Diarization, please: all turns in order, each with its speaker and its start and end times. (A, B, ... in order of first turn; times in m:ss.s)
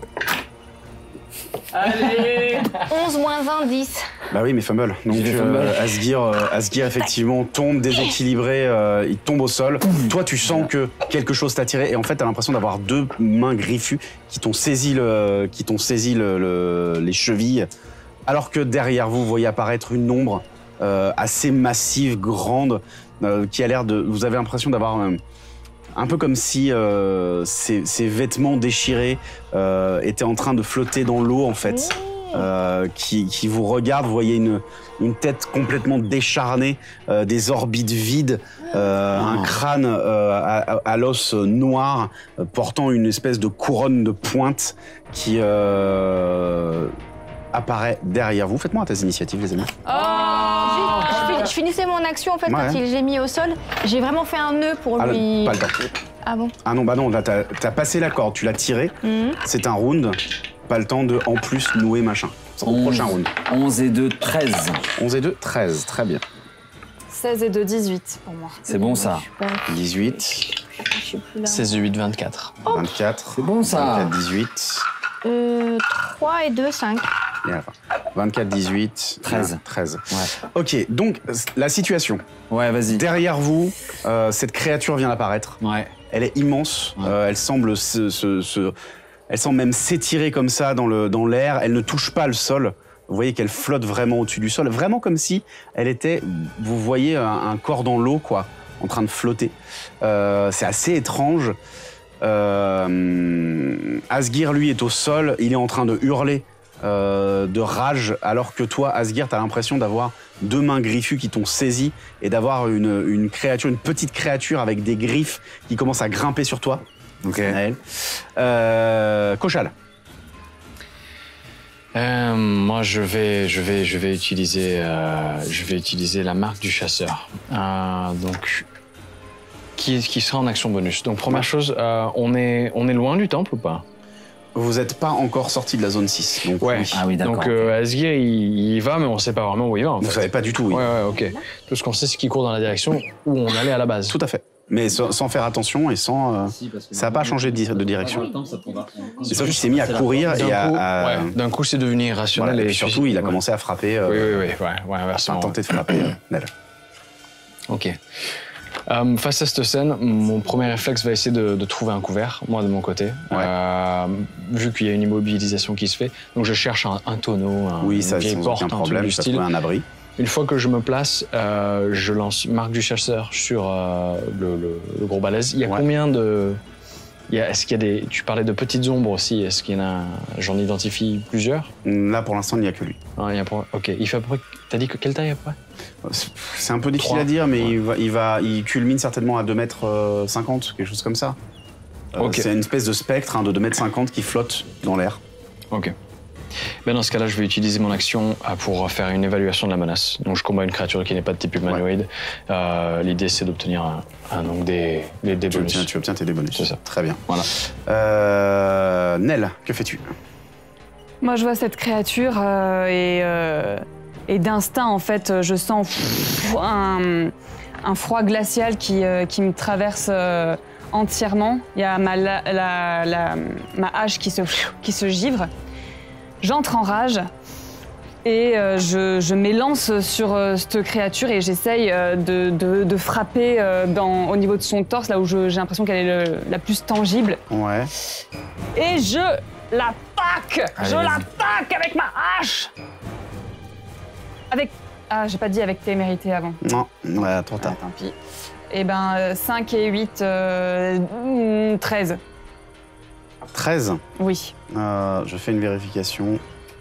0:01.7-0:02.9 A
0:02.8-0:04.1 B
0:04.3-0:17.7 C
0:05.1-0:06.0 D
0:10.4-0:10.7 D
0:18.3-0:25.2 C
0:25.9-0:47.0 C
0:31.7-0:32.5 B
0:39.1-0:39.6 D
0:47.5-0:49.8 C
0:49.8-0:51.5 A
0:49.9-0:55.6 B
0:52.5-0:52.8 C
0:55.0-0:55.8 C
0:56.2-0:56.5 B
0:56.6-1:03.3 C
0:59.0-0:59.4 B
1:02.6-1:04.9 D
1:05.0-1:06.2 C
1:07.1-1:08.6 A
1:08.7-1:11.8 B
1:08.7-1:09.3 D
1:09.7-1:10.5 C
1:11.4-1:12.6 E
1:12.6-1:14.9 C
1:13.4-1:14.2 D
1:15.2-1:17.1 B
1:17.4-1:22.2 C
1:19.2-1:19.6 D
1:22.5-1:23.0 D
1:22.9-1:25.6 C
1:25.6-1:25.9 D
1:26.1-1:28.8 C
1:29.3-1:41.6 C
1:42.2-1:56.8 C
1:57.2-1:57.6 D
1:57.4-1:59.7 C
2:01.9-2:08.7 E
2:09.8-2:13.8 E
2:14.6-2:17.0 C
2:16.5-2:24.2 E
2:16.9-2:17.7 D
2:20.0-2:20.9 C
2:24.1-2:28.3 C
2:26.5-2:30.6 D
2:29.3-2:31.3 C
2:30.3-2:33.4 E
2:32.4-2:34.5 C
2:34.0-2:35.9 E
2:35.1-2:36.5 C
2:37.7-2:38.0 E
2:38.9-2:49.5 E
2:47.8-2:49.9 C
2:50.2-2:56.6 E
2:57.3-3:01.7 E
3:01.8-3:03.0 C
3:03.2-3:05.6 E
3:06.0-3:11.4 C
3:07.0-3:07.7 E
3:12.1-3:15.2 C
3:12.2-3:12.5 E
3:16.9-3:25.9 E
3:25.5-3:30.1 C
3:31.2-3:45.5 A
3:46.4-3:47.3 A
3:48.2-3:57.4 A
3:57.5-3:57.9 C
3:58.8-4:02.7 A
4:00.8-4:01.3 D
4:04.5-4:06.6 A
4:06.6-4:07.8 C
4:07.6-4:08.2 A
4:08.7-4:12.2 A
4:13.5-4:14.0 C
4:14.2-4:14.5 A
4:14.7-4:16.4 C